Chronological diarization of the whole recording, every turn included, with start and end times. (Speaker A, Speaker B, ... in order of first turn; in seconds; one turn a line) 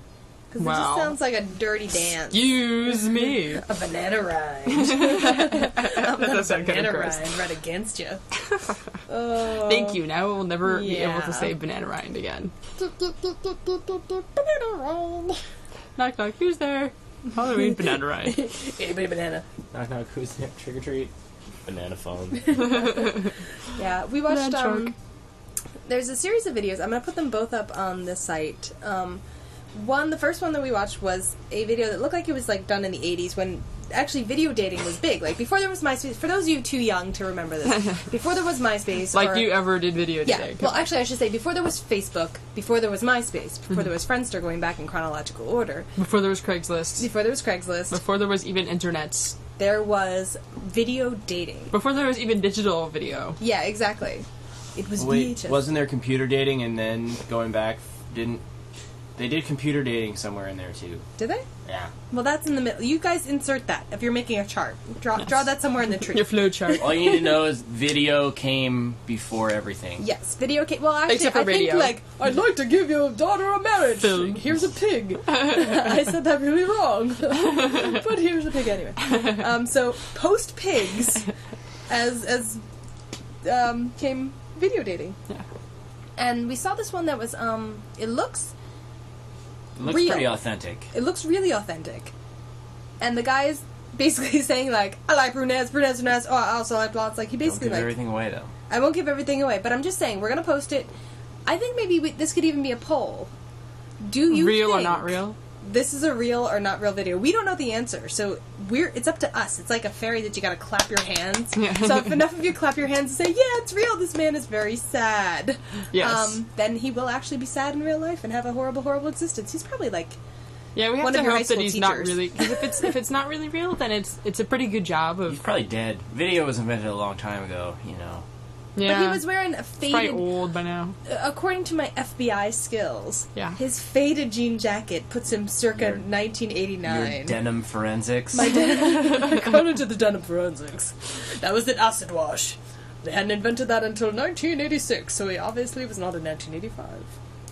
Speaker A: 0.5-2.6
Speaker B: 0.6-1.2
Speaker B: 2.3-3.6
Speaker A: 3.6-8.2
Speaker B: 4.7-7.3
Speaker A: 9.1-10.0
Speaker B: 9.5-12.5
Speaker A: 10.6-11.5
Speaker A: 12.8-15.4
Speaker B: 16.0-18.5
Speaker A: 18.3-19.4
Speaker C: 19.7-21.1
Speaker C: 21.6-22.8
Speaker A: 22.6-23.1
Speaker B: 23.0-23.2
Speaker A: 23.8-24.9
Speaker B: 24.3-24.9
Speaker A: 25.9-29.2
Speaker A: 29.7-39.7
Speaker B: 39.1-40.8
Speaker A: 40.2-45.9
Speaker B: 46.0-47.1
Speaker A: 47.0-48.0
Speaker B: 47.9-49.4
Speaker A: 49.6-51.7
Speaker B: 51.7-53.4
Speaker A: 53.4-55.6
Speaker C: 55.0-58.4
Speaker C: 59.2-61.0
Speaker A: 61.2-61.5
Speaker C: 61.7-61.9
Speaker A: 62.1-67.3
Speaker B: 66.0-67.2
Speaker C: 66.8-70.0
Speaker A: 70.0-81.3
Speaker B: 71.1-72.0
Speaker B: 74.0-74.4
Speaker A: 81.9-82.6
Speaker A: 83.4-85.2
Speaker A: 86.2-88.5
Speaker C: 89.8-90.9
Speaker A: 89.8-92.1
Speaker A: 93.0-97.9
Speaker C: 97.4-98.5
Speaker A: 98.7-100.9
Speaker A: 101.5-103.3
Speaker A: 104.0-120.2
Speaker B: 104.3-105.4
Speaker B: 111.6-112.0
Speaker B: 115.9-116.4
Speaker B: 120.8-125.4
Speaker A: 121.0-122.9
Speaker C: 125.3-128.3
Speaker B: 128.8-131.0
Speaker A: 128.8-130.3
Speaker A: 131.1-137.4
Speaker C: 135.8-136.0
Speaker C: 136.8-138.6
Speaker A: 138.3-147.1